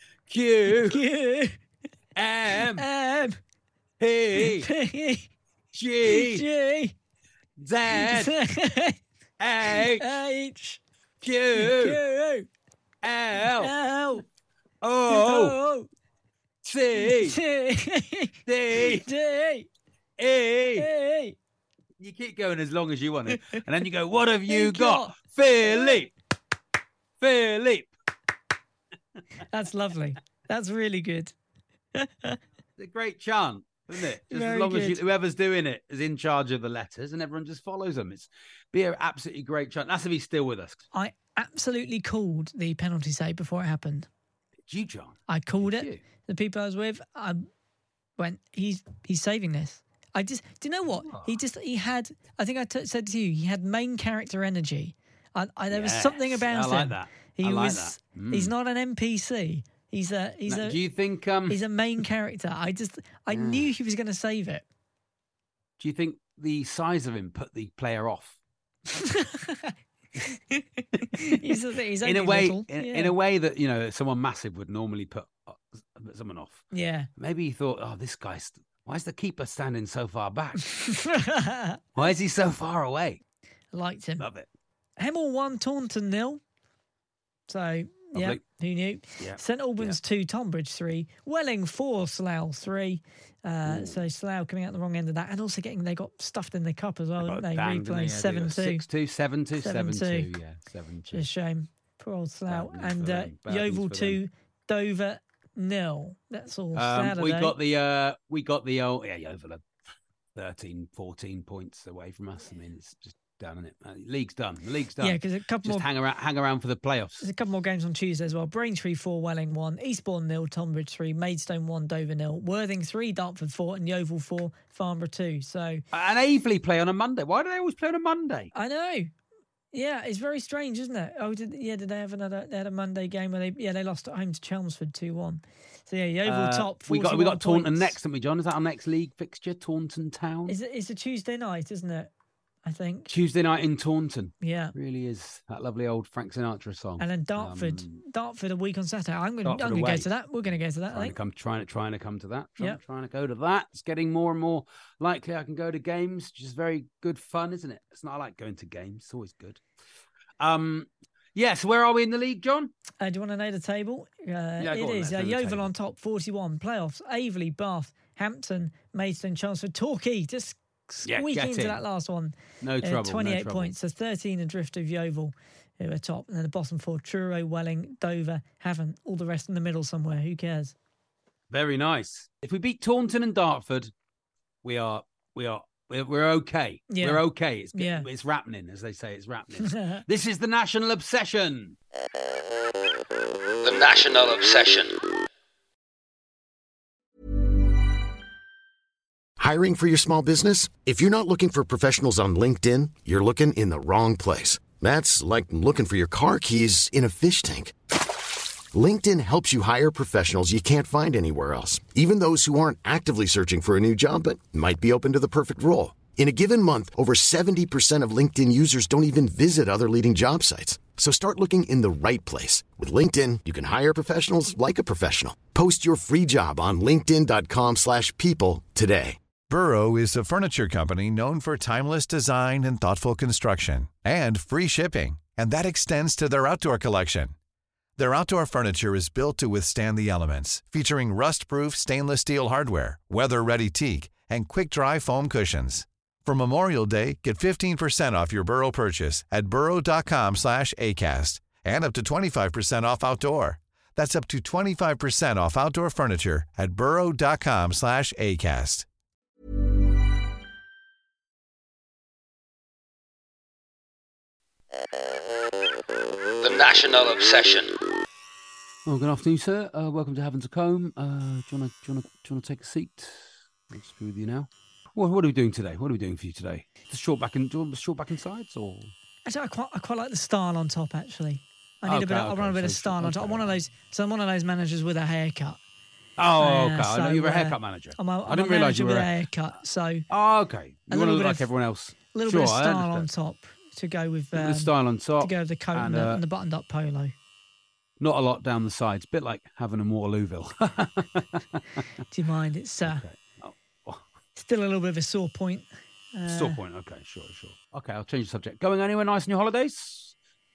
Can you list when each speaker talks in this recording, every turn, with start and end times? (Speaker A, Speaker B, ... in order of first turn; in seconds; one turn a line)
Speaker A: 0.3-1.0
Speaker B: 0.7-1.6
Speaker A: 2.2-2.9
Speaker B: 2.8-3.4
Speaker A: 4.0-4.7
Speaker B: 4.3-5.3
Speaker A: 5.7-6.5
Speaker B: 6.0-7.0
Speaker A: 7.6-8.3
Speaker B: 7.9-9.0
Speaker A: 9.4-10.1
Speaker B: 9.7-10.8
Speaker A: 11.2-12.0
Speaker B: 11.6-12.5
Speaker A: 13.0-13.7
Speaker B: 13.6-14.2
Speaker A: 14.8-15.6
Speaker B: 15.1-15.9
Speaker A: 16.6-17.4
Speaker B: 17.0-19.7
Speaker A: 18.5-19.1
Speaker A: 20.2-20.9
Speaker B: 20.8-21.4
Speaker A: 22.0-26.1
Speaker B: 23.3-23.6
Speaker B: 24.5-26.0
Speaker A: 27.2-27.9
Speaker B: 29.5-31.3
Speaker B: 32.0-32.4
Speaker A: 32.8-40.8
Speaker B: 34.3-35.0
Speaker B: 40.9-44.1
Speaker A: 44.7-46.0
Speaker B: 45.3-47.5
Speaker B: 48.2-60.8
Speaker A: 50.9-51.4
Speaker A: 55.7-58.5
Speaker A: 60.5-61.6
Speaker B: 61.5-64.7
Speaker A: 63.3-63.7
Speaker A: 65.8-68.4
Speaker B: 69.0-73.1
Speaker A: 71.0-80.7
Speaker B: 76.7-77.1
Speaker B: 80.7-82.0
Speaker A: 82.0-83.2
Speaker B: 83.7-84.3
Speaker A: 84.2-84.5
Speaker B: 85.0-86.4
Speaker B: 87.5-98.8
Speaker A: 88.1-88.4
Speaker A: 89.2-90.0
Speaker A: 93.7-94.0
Speaker A: 97.2-101.3
Speaker B: 99.6-100.3
Speaker B: 101.1-107.6
Speaker A: 102.5-104.2
Speaker A: 106.8-109.7
Speaker A: 110.4-117.3
Speaker B: 115.0-115.9
Speaker B: 117.2-125.8
Speaker A: 125.9-128.5
Speaker B: 128.5-129.1
Speaker B: 129.7-137.9
Speaker A: 136.2-140.6
Speaker B: 140.5-142.1
Speaker B: 142.7-143.1
Speaker A: 143.1-148.0
Speaker B: 144.4-144.8
Speaker B: 147.0-151.2
Speaker A: 149.4-150.1
Speaker A: 150.9-159.6
Speaker A: 160.4-162.7
Speaker B: 163.0-180.7
Speaker A: 164.6-165.7
Speaker A: 171.1-171.8
Speaker A: 172.6-173.7
Speaker A: 181.5-183.9
Speaker A: 184.6-191.8
Speaker B: 186.9-187.2
Speaker B: 187.7-188.1
Speaker B: 189.7-190.0
Speaker C: 193.6-195.0
Speaker D: 199.4-207.8
Speaker D: 208.7-229.2
Speaker E: 229.5-237.3
Speaker E: 238.0-258.9
Speaker C: 266.4-267.8
Speaker A: 268.9-278.9
Speaker B: 279.3-285.6
Speaker A: 281.9-283.5
Speaker A: 286.2-289.1
Speaker B: 286.4-290.1
Speaker A: 290.1-293.1
Speaker B: 290.9-291.5
Speaker B: 292.1-297.1
Speaker A: 294.4-296.2
Speaker A: 298.0-301.8
Speaker B: 302.1-303.0
Speaker A: 302.8-304.0
Speaker B: 304.4-306.6
Speaker A: 306.3-310.1